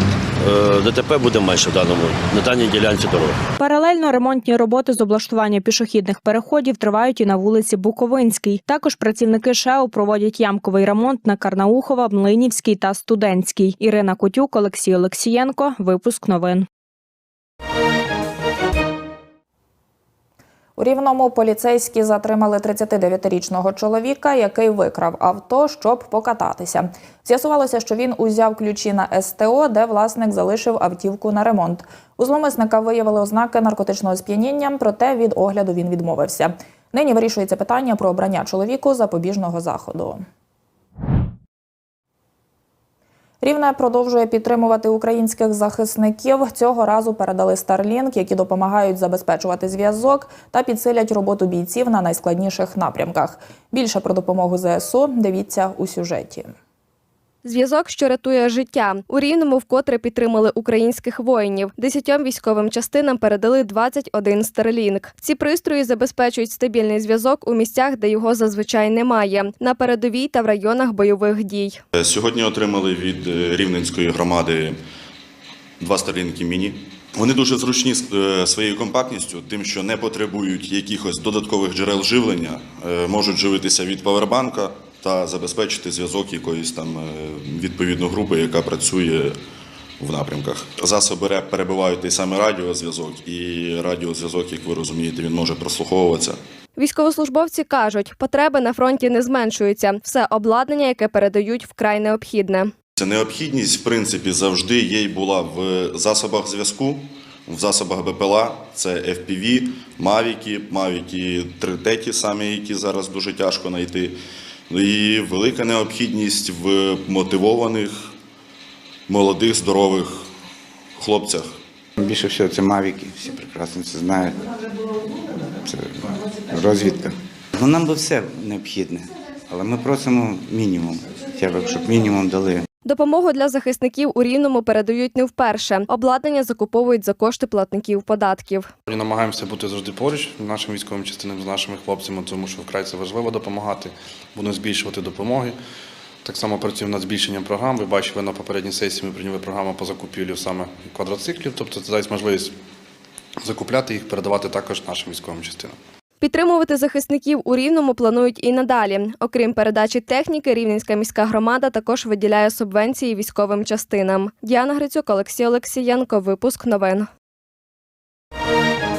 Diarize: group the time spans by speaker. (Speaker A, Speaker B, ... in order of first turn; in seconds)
Speaker A: 0.4-3.4
Speaker B: 3.6-16.7
Speaker C: 20.8-40.2, 43.4-56.5
Speaker D: 57.4-71.8, 96.8-102.7, 132.8-138.7, 156.2-167.1
Speaker E: 71.9-74.8, 75.8-89.3, 90.0-96.4, 103.0-114.2, 114.7-117.9, 119.1-120.3, 121.0-121.5
Speaker F: 122.0-124.4, 125.6-132.7
Speaker G: 138.9-145.6, 146.2-152.5, 153.4-155.8